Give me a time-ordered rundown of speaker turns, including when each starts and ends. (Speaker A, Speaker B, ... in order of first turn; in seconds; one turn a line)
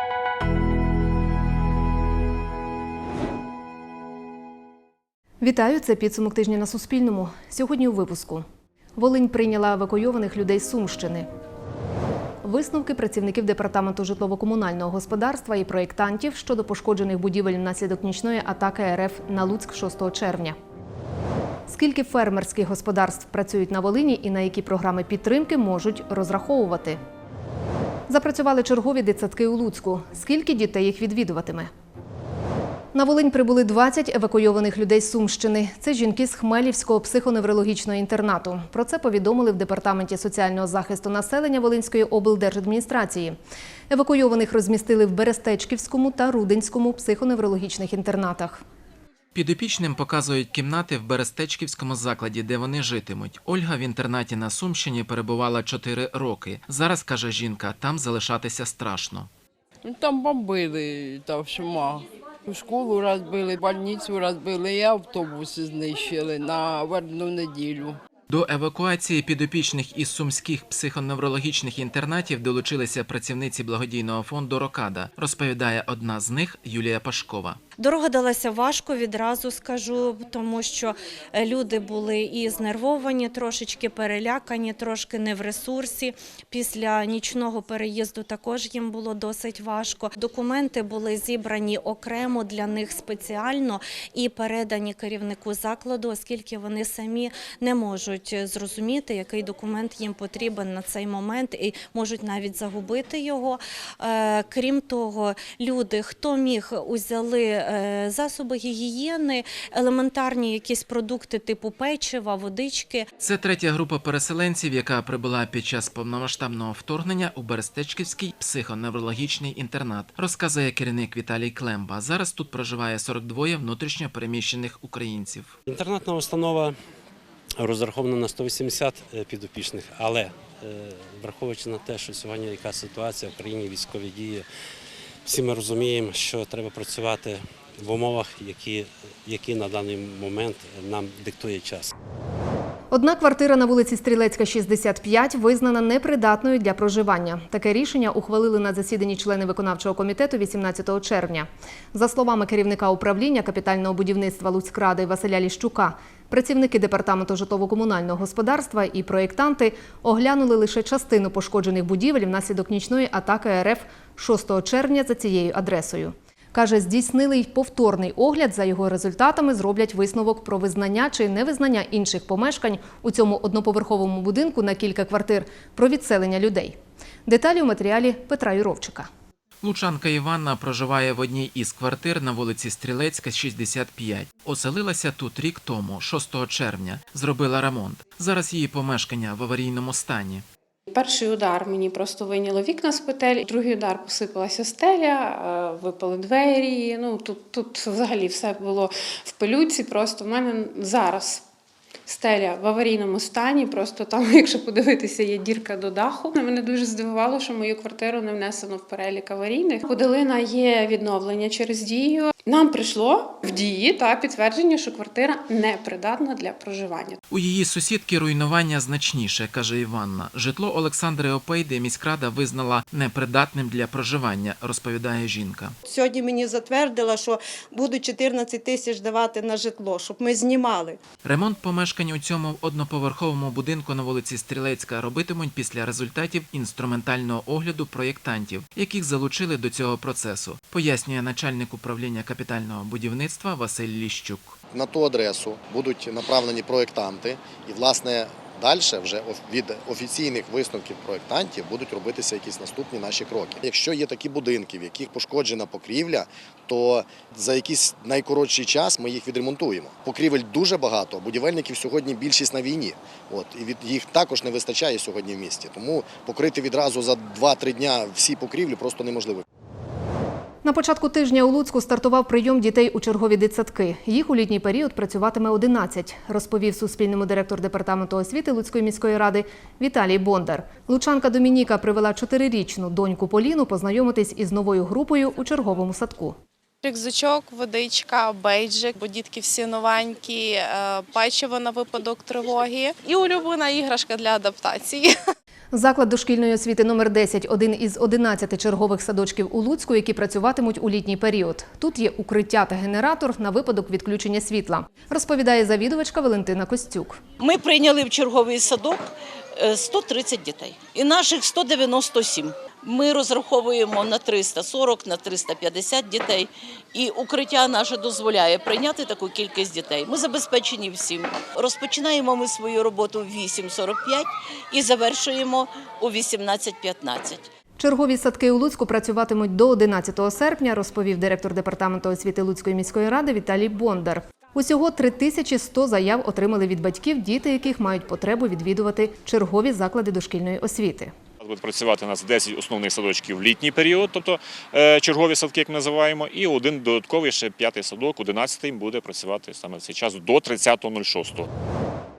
Speaker A: 5.4-8.4
Speaker A: 9.0-11.3
Speaker A: 12.4-20.6
Speaker A: 21.7-27.0
Speaker A: 28.1-31.7
Speaker A: 32.9-43.4
Speaker A: 43.9-48.6
Speaker B: 49.4-59.3
Speaker C: 59.9-68.0
Speaker B: 68.3-77.6
Speaker D: 77.8-113.1
Speaker B: 113.2-125.5
Speaker E: 125.7-126.8
Speaker E: 127.6-134.4
Speaker E: 135.3-141.9
Speaker A: 142.9-179.1
Speaker B: 179.6-190.4
Speaker F: 190.9-201.4
Speaker F: 202.1-217.2
Speaker B: 217.3-225.8
Speaker G: 225.9-231.0
Speaker B: 231.2-244.6
Speaker H: 244.7-269.4
Speaker A: 270.6-286.4
Speaker I: 286.8-295.1
Speaker A: 295.7-307.2
Speaker J: 307.4-327.5
Speaker A: 327.8-341.1
Speaker K: 341.4-351.5